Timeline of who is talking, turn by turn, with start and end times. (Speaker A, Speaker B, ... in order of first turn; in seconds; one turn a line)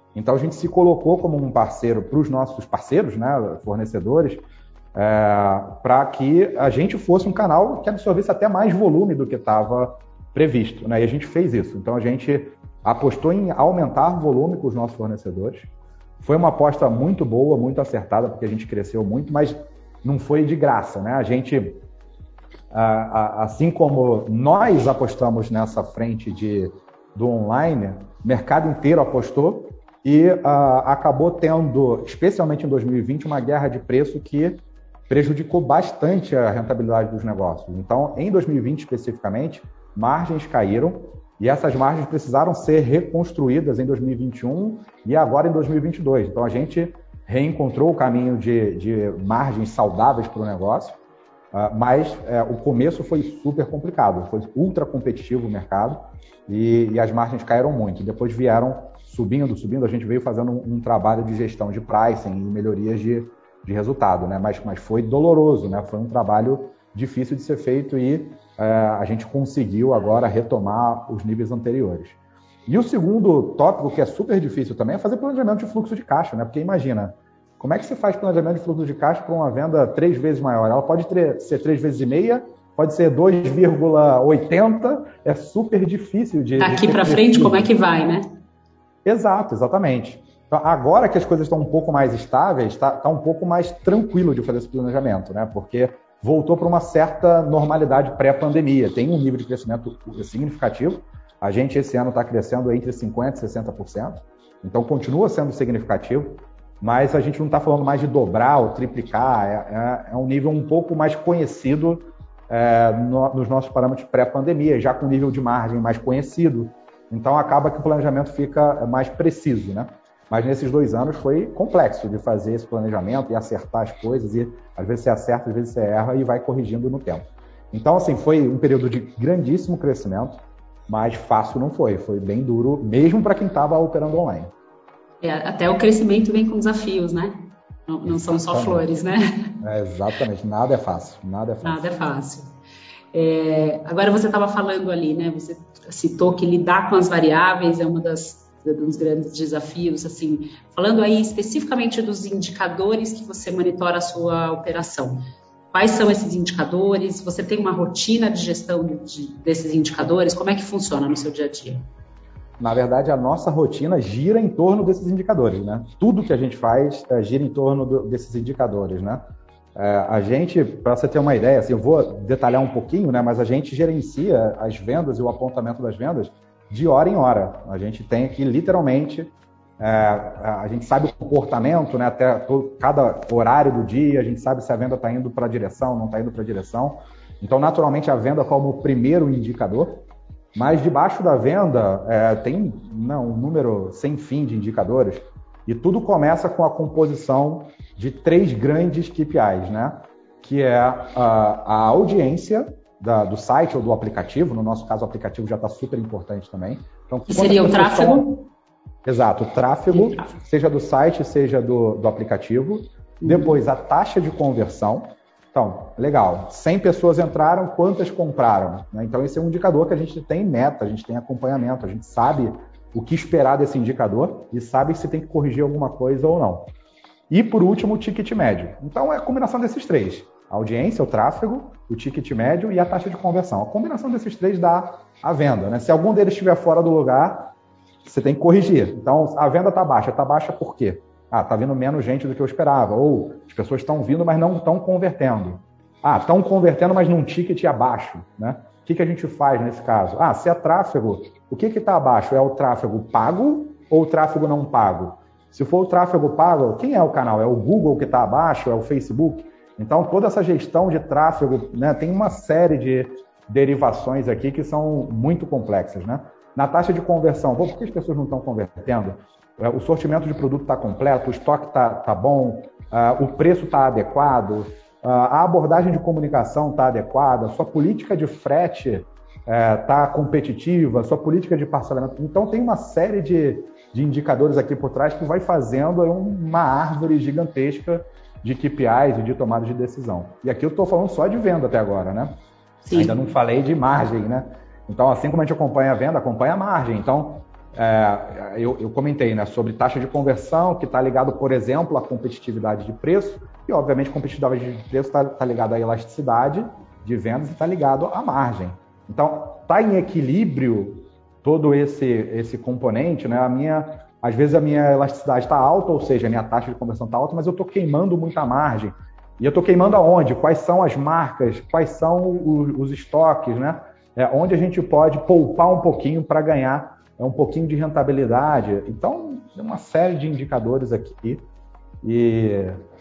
Speaker A: 0.1-15.7
Speaker A: 16.2-21.8
Speaker A: 22.7-51.0
Speaker A: 51.5-87.7
Speaker B: 86.6-88.2
Speaker A: 89.0-134.5
Speaker B: 135.2-139.6
Speaker A: 138.1-138.9
Speaker A: 139.6-141.9
Speaker B: 141.6-142.5
Speaker B: 143.1-155.2
Speaker B: 155.7-161.8
Speaker A: 162.6-169.2
Speaker A: 169.8-208.4
Speaker B: 207.3-208.5
Speaker A: 209.1-226.7
Speaker B: 209.9-210.2
Speaker B: 213.2-213.6
Speaker A: 227.3-237.5
Speaker A: 238.1-292.3
Speaker B: 292.8-293.2
Speaker A: 292.9-331.4
Speaker A: 332.0-332.8